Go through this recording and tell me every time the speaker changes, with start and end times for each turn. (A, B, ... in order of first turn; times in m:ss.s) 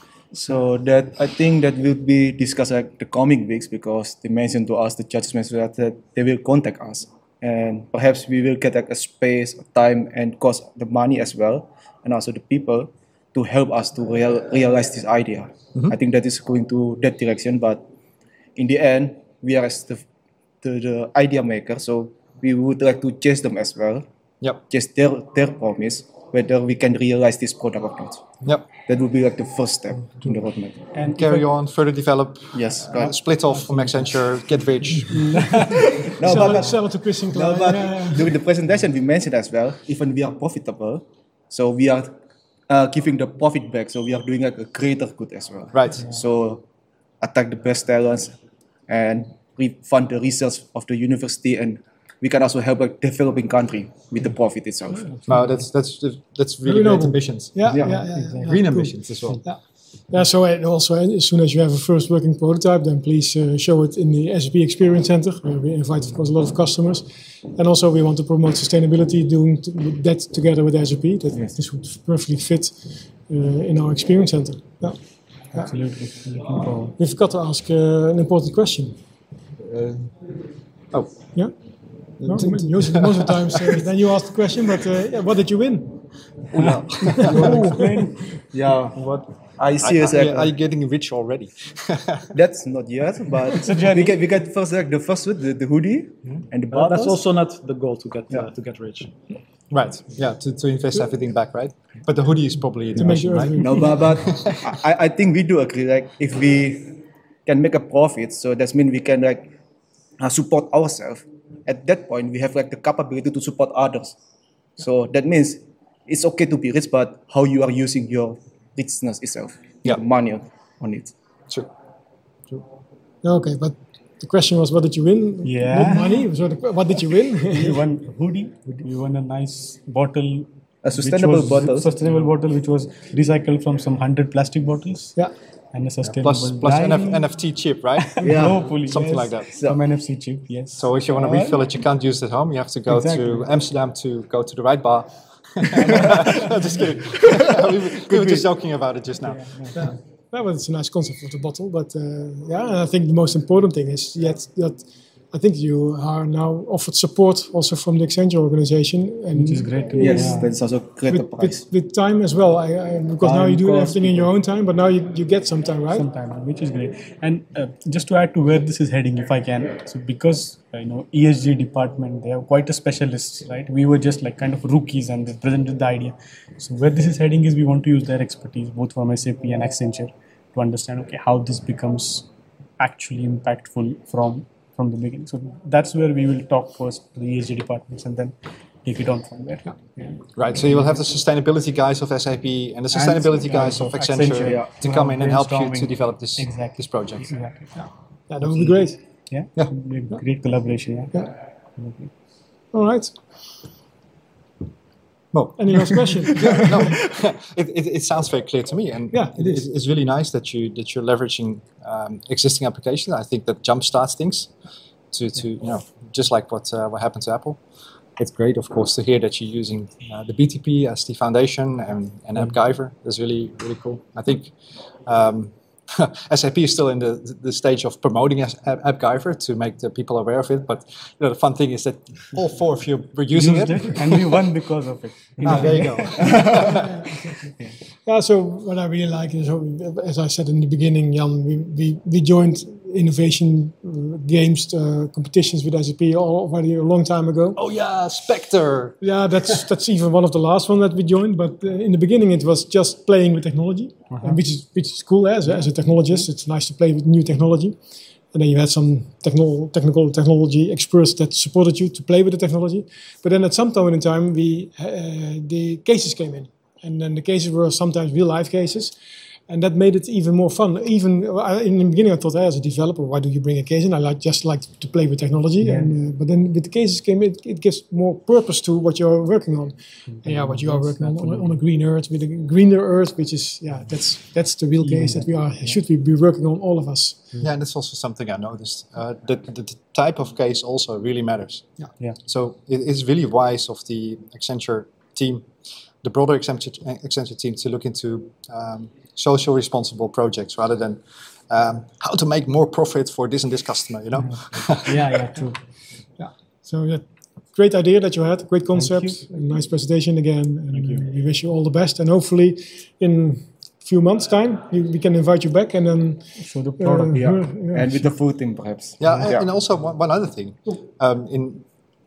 0:00.3-0:17.8 A
0:18.6-0:20.0 A
0:20.6-0:24.0 A
0:24.7-0:30.8 A
0:30.9-0:31.5 B
0:31.1-0:35.7 C
0:32.5-0:33.2 A
0:33.6-0:34.1 B
0:35.0-0:36.8 B
0:36.2-0:42.1 A
0:36.2-0:38.3 D
0:42.7-0:46.6 A
0:45.7-0:46.1 C
0:47.2-0:48.4 A
0:48.9-0:55.1 A
0:55.2-0:57.7 C
0:56.6-1:15.7 D
0:57.7-0:58.0 A
0:57.8-0:58.7 B
0:58.4-0:59.4 C
1:15.5-1:16.9 B
1:17.0-1:19.0 D
1:19.7-1:20.1 A
1:22.2-1:23.8 C
1:22.2-1:26.0 D
1:26.5-1:27.9 C
1:26.6-1:28.4 B
1:26.6-1:28.0 A
1:28.5-1:30.5 A
1:29.8-1:32.4 C
1:32.3-1:37.2 A
1:33.6-1:34.2 B
1:36.7-1:39.1 E
1:39.7-1:44.7 C
1:43.0-1:44.1 D
1:43.6-1:49.5 A
1:50.2-1:54.2 A
1:54.8-2:01.1 A
2:03.2-2:07.8 D
2:05.4-2:06.3 B
2:07.5-2:17.3 B
2:10.8-2:11.9 A
2:16.0-2:19.5 C
2:18.1-2:21.6 B
2:18.2-2:18.9 A
2:19.5-2:19.8 A
2:20.7-2:29.6 C
2:22.9-2:23.4 B
2:25.8-2:26.7 B
2:28.1-2:28.4 A
2:29.2-2:29.9 B
2:29.7-2:40.5 D
2:39.3-2:40.6 B
2:40.0-2:41.6 A
2:41.1-2:46.1 D
2:43.2-2:44.3 A
2:45.9-3:02.3 B
3:02.8-3:10.8 B
3:10.4-3:17.3 C
3:12.9-3:17.8 B
3:14.4-3:14.7 A
3:17.7-3:19.0 D
3:19.3-3:22.1 B
3:22.7-3:23.2 D
3:25.3-3:34.5 C
3:25.6-3:26.8 D
3:29.1-3:29.6 D
3:35.1-3:37.6 C
3:38.2-3:44.5 C
3:45.0-3:54.3 C
3:53.3-3:56.8 B
3:55.4-3:56.8 C
3:56.8-3:57.1 D
3:58.0-4:07.6 D
4:07.6-4:09.6 C
4:09.0-4:17.8 D
4:14.1-4:14.4 B
4:18.3-4:28.9 D
4:29.5-4:47.3 D
4:35.6-4:35.9 B
4:40.1-4:41.6 B
4:44.8-4:45.8 B
4:47.4-5:05.1 C
5:04.2-5:05.6 B
5:06.2-5:17.9 D
5:08.7-5:09.2 B
5:16.4-5:17.6 B
5:17.1-5:19.5 A
5:19.0-5:21.7 C
5:19.0-5:19.3 B